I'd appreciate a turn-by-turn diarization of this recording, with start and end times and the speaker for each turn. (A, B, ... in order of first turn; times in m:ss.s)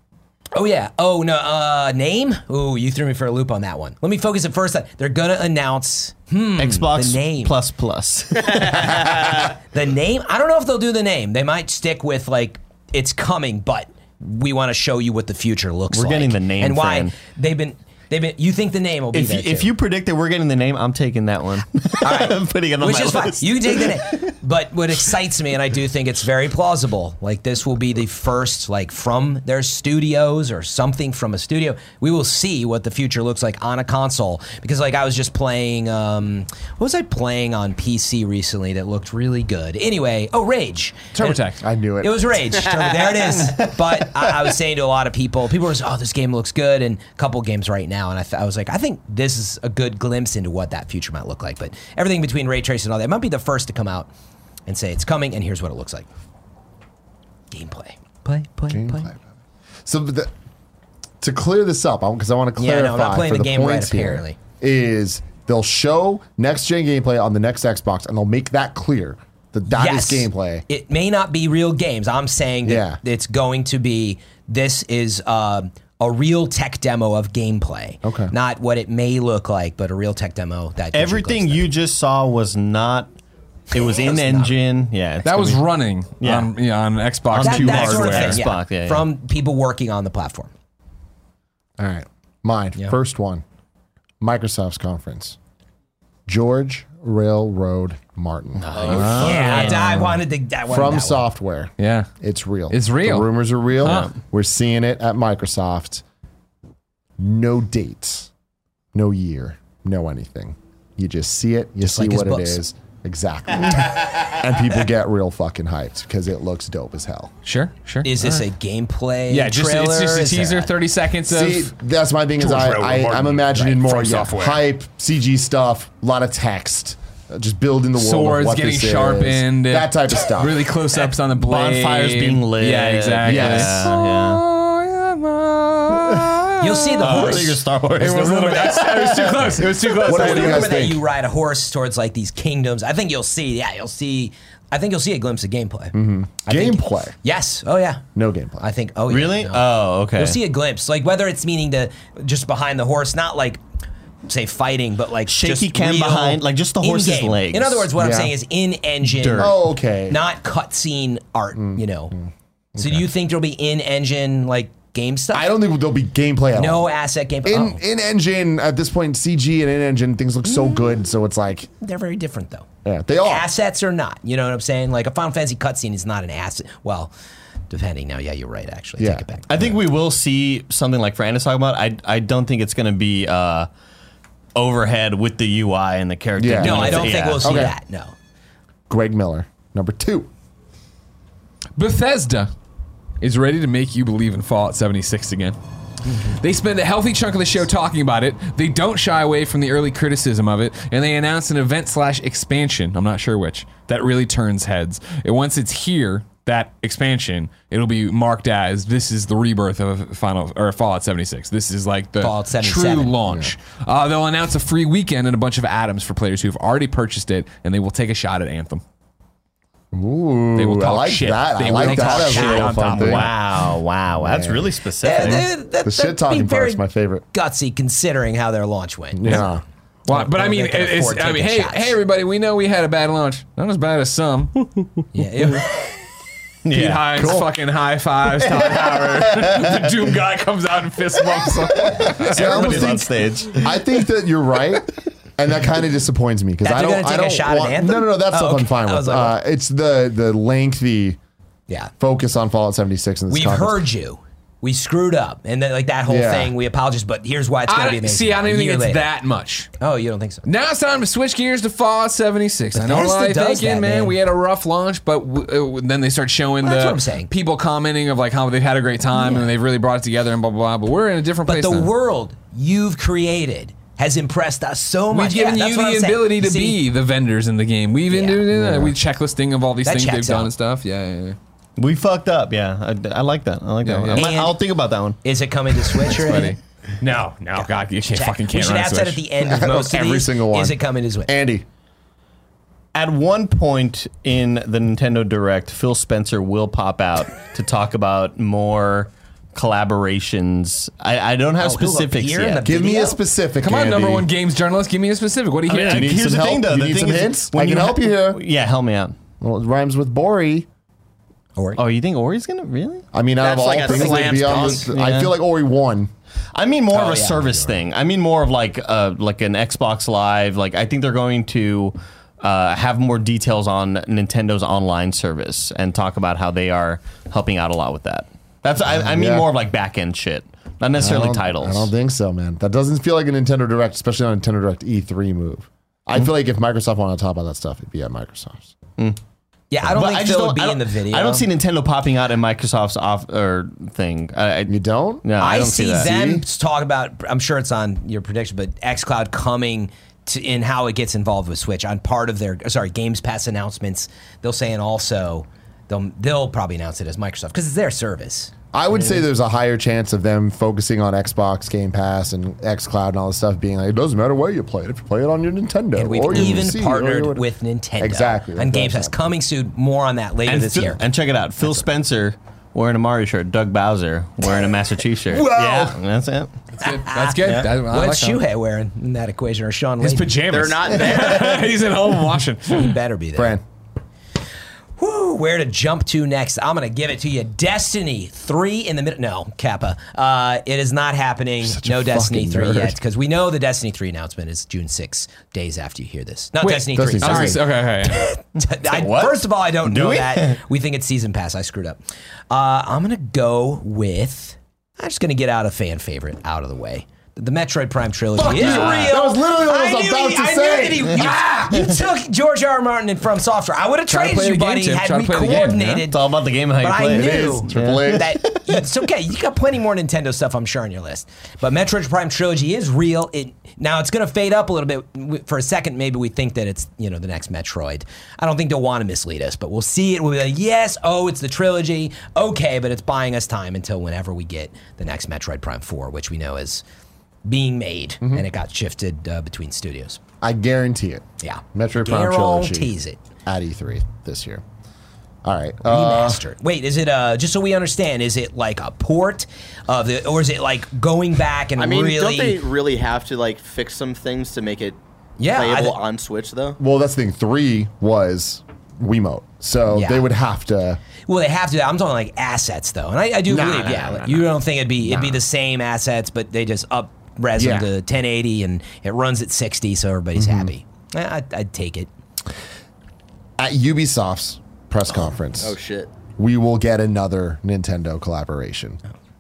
0:00.5-0:07.6 A
0:06.6-0:09.4 B
0:09.4-0:19.7 A
0:15.9-0:17.1 B
0:19.1-0:24.3 B
0:22.0-0:41.4 A
0:41.1-0:41.6 C
0:41.4-0:42.3 D
0:42.0-0:54.1 A
0:43.4-0:43.7 B
0:54.7-0:56.1 A
0:57.5-0:59.1 A
0:58.7-0:59.2 D
0:59.8-1:00.3 D
1:01.2-1:10.6 D
1:02.6-1:04.4 A
1:09.7-1:21.7 A
1:12.6-1:13.0 D
1:18.0-1:18.3 D
1:20.9-1:23.1 B
1:23.7-1:25.6 B
1:23.9-1:24.6 A
1:25.2-1:28.4 C
1:26.2-1:26.5 B
1:27.3-1:29.0 B
1:27.4-1:30.5 A
1:31.8-1:33.4 D
1:34.2-1:35.4 D
1:36.3-1:39.2 D
1:38.6-1:40.1 B
1:38.8-1:40.0 C
1:38.9-1:41.3 A
1:40.7-1:46.0 D
1:41.8-1:42.1 C
1:42.7-1:44.1 C
1:43.8-1:44.1 B
1:47.2-1:48.3 D
1:48.9-1:57.3 D
1:51.8-1:52.6 A
1:57.4-1:58.4 C
1:58.0-2:00.7 A
1:59.3-2:01.7 C
2:01.3-2:10.7 D
2:02.4-2:04.6 C
2:08.0-2:20.8 C
2:11.3-2:14.4 B
2:13.2-2:13.9 D
2:16.6-2:17.6 A
2:17.0-2:19.7 B
2:19.4-2:28.0 A
2:20.0-2:21.0 D
2:25.9-2:27.1 D
2:28.1-2:28.6 D
2:28.6-2:33.6 A
2:29.1-2:30.4 B
2:34.3-2:39.5 A
2:35.2-2:37.9 B
2:38.0-2:38.3 D
2:39.0-2:39.5 B
2:39.4-2:40.2 D
2:40.0-2:42.1 A
2:41.6-2:43.0 D
2:42.8-2:45.5 A
2:45.3-2:46.9 D
2:46.5-2:47.8 A
2:47.4-2:51.7 D
2:50.5-2:50.8 A
2:51.8-2:57.1 A
2:52.8-2:53.5 D
2:57.7-2:59.5 A
2:59.0-2:59.7 D
2:59.5-3:03.7 B
3:04.5-3:07.6 B
3:06.4-3:07.7 D
3:06.6-3:08.1 A
3:08.9-3:10.3 D
3:11.8-3:12.5 C
3:13.2-3:15.6 C
3:16.2-3:38.8 C
3:32.2-3:33.2 A
3:33.3-3:33.5 D
3:39.9-3:43.3 D
3:40.6-3:43.3 C
3:41.7-3:42.7 A
3:42.9-3:45.4 B
3:44.2-3:44.7 D
3:45.0-3:46.8 A
3:45.3-3:47.2 D
3:47.3-3:49.5 A
3:49.1-3:49.6 D
3:50.1-3:55.0 C
3:50.1-3:51.9 A
3:55.1-3:55.9 A
3:56.6-3:57.3 B
3:56.7-4:03.0 C
3:57.1-3:57.5 D
3:58.4-4:00.1 B
4:01.2-4:04.0 B
4:02.3-4:11.2 D
4:06.6-4:09.3 A
4:12.0-4:13.8 D
4:13.3-4:19.0 A
4:16.1-4:16.5 D
4:17.7-4:19.7 C
4:19.8-4:20.4 A
4:20.4-4:31.9 C
4:22.7-4:24.2 A
4:26.6-4:27.3 A
4:29.1-4:29.5 A
4:31.4-4:36.8 A
4:35.1-4:41.4 C
4:38.1-4:38.4 A
4:38.5-4:38.9 D
4:39.8-4:40.5 A
4:41.8-4:45.2 B
4:43.8-4:44.3 C
4:44.1-4:44.6 A
4:45.2-4:46.6 A
4:46.1-4:49.2 C
4:47.6-4:51.3 A
4:49.4-4:51.6 D
4:52.9-5:02.6 B
5:01.6-5:03.2 A
5:02.6-5:04.3 D
5:03.6-5:06.4 C
5:05.7-5:09.2 B
5:05.8-5:08.4 D
5:09.4-5:10.7 D
5:11.8-5:13.0 B
5:13.1-5:16.1 D
5:13.4-5:14.9 E
5:13.8-5:14.9 A
5:14.9-5:15.3 B
5:16.5-5:31.9 B
5:16.9-5:17.8 A
5:28.8-5:29.5 D
5:31.0-5:38.7 D
5:39.7-5:41.5 A
5:39.9-5:46.1 B
5:44.7-5:45.2 D
5:45.4-5:58.5 A
5:45.9-5:46.4 D
5:58.7-6:09.3 D
6:05.9-6:11.0 A
6:10.4-6:16.5 B
6:15.2-6:16.0 D
6:16.8-6:18.4 C
6:16.8-6:20.4 A
6:17.4-6:17.7 B
6:20.0-6:23.0 C
6:20.5-6:21.7 E
6:22.7-6:23.6 A
6:23.3-6:23.6 D
6:25.0-6:42.0 A
6:31.6-6:33.0 D
6:36.6-6:38.3 C
6:36.9-6:37.6 D
6:38.8-6:40.6 B
6:42.5-7:16.8 A
6:48.4-6:51.3 D
6:48.5-6:49.1 B
6:51.1-6:51.9 C
6:54.1-6:56.1 C
6:56.1-6:58.8 B
6:57.1-6:58.4 D
7:17.4-7:20.2 A
7:20.4-7:22.9 D
7:21.4-7:23.2 A
7:23.4-7:24.6 D
7:25.4-7:26.4 D
7:25.8-7:32.6 A
7:31.8-7:36.8 E
7:35.4-7:36.0 A
7:36.8-7:41.0 D
7:39.9-7:40.3 A
7:41.3-7:52.1 A
7:43.5-7:44.4 D
7:45.0-7:45.4 D
7:47.6-7:47.9 D
7:50.3-7:50.7 D
7:53.6-7:55.8 D
7:55.6-7:56.1 E
7:56.4-7:59.0 D